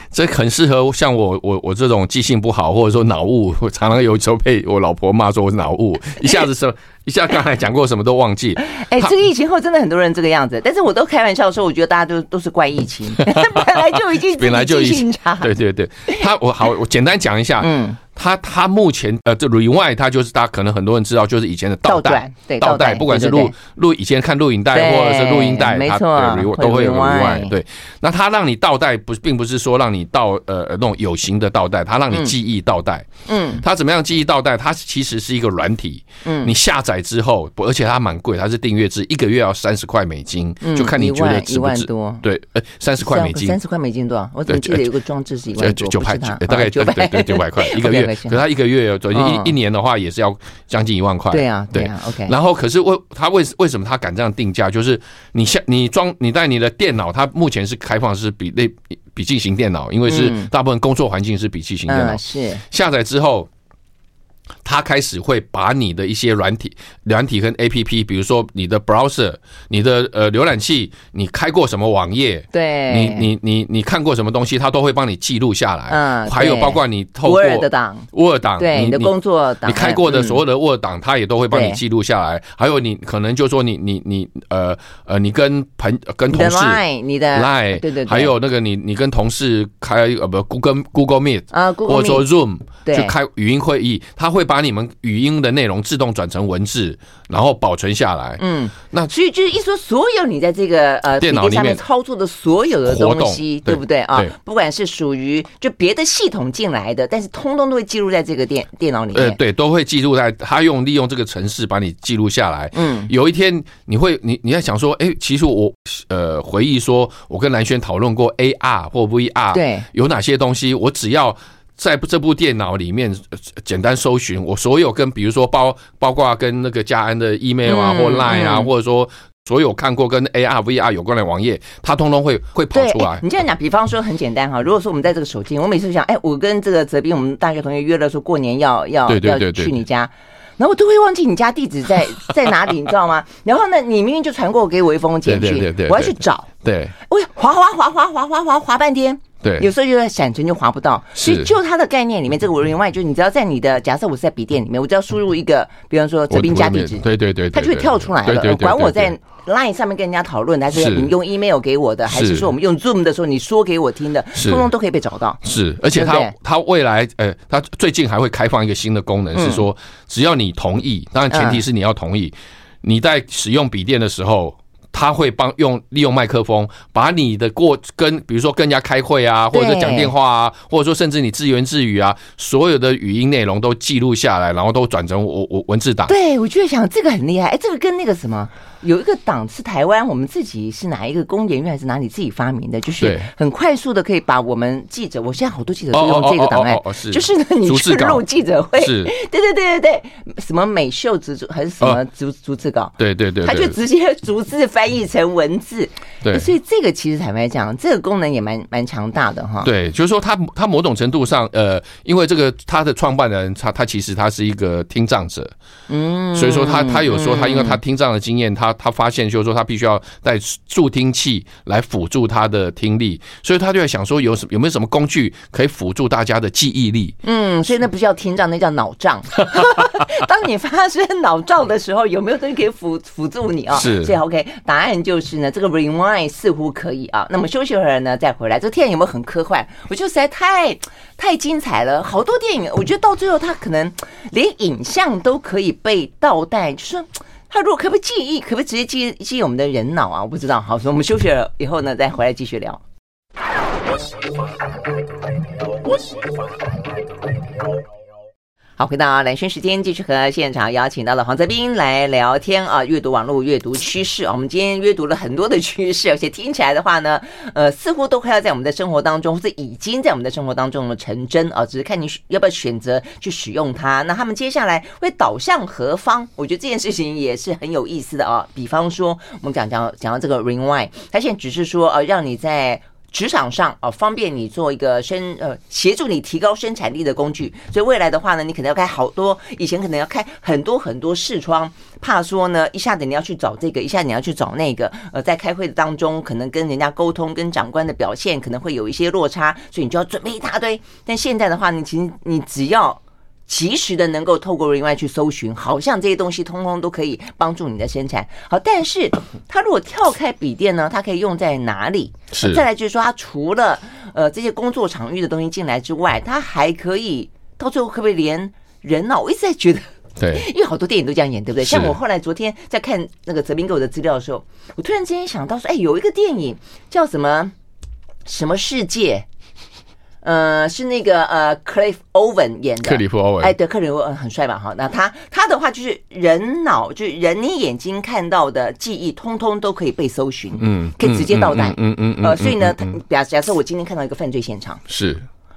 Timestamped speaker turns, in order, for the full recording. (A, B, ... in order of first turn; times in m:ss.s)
0:00.1-0:09.1 A
0:08.6-0:15.5 B
0:13.2-0:33.1 A
0:17.6-0:18.0 B
0:21.9-0:23.5 B
0:24.7-0:27.5 B
0:33.3-0:33.6 B
0:33.6-0:43.6 A
0:36.2-0:36.5 B
0:40.6-0:42.2 B
0:43.0-0:48.4 B
0:44.5-0:44.9 A
0:45.6-1:03.5 A
0:49.1-0:49.5 B
0:51.3-0:52.3 B
1:00.1-1:00.5 B
1:01.9-1:02.6 B
1:04.6-1:19.1 A
1:12.5-1:13.3 B
1:15.9-1:20.4 B
1:19.6-1:26.8 A
1:21.5-1:21.8 B
1:26.3-1:28.3 B
1:27.3-1:39.1 A
1:31.5-1:32.2 B
1:32.8-1:33.1 B
1:38.4-1:49.4 B
1:41.2-1:41.8 A
1:42.9-1:44.3 A
1:49.1-2:13.2 A
1:52.7-1:53.1 B
1:59.5-1:59.9 B
2:07.7-2:08.7 B
2:12.7-2:26.5 B
2:19.1-2:19.8 A
2:25.3-2:26.9 A
2:27.1-2:45.4 B
2:29.4-2:29.7 A
2:31.2-2:31.5 A
2:36.3-2:39.1 A
2:40.7-2:41.1 A
2:42.1-2:42.5 A
2:44.4-2:44.7 A
2:45.4-3:06.1 A
2:45.9-2:46.3 B
2:49.3-2:49.7 B
2:51.3-2:51.6 B
2:59.5-3:00.1 B
3:06.1-3:29.7 B
3:13.0-3:13.3 A
3:15.9-3:18.2 A
3:18.8-3:19.1 A
3:23.0-3:23.8 A
3:29.6-3:35.5 A
3:35.9-3:37.8 B
3:36.3-3:47.2 A
3:47.2-4:12.8 B
3:53.7-3:54.1 A
4:18.8-5:27.5 B
5:12.3-5:12.6 A
5:20.2-5:20.5 A
5:21.6-5:21.9 A
5:28.3-5:29.3 B
5:30.2-5:44.8 B
5:32.8-5:33.5 A
5:40.6-5:42.9 A
5:44.9-5:45.3 A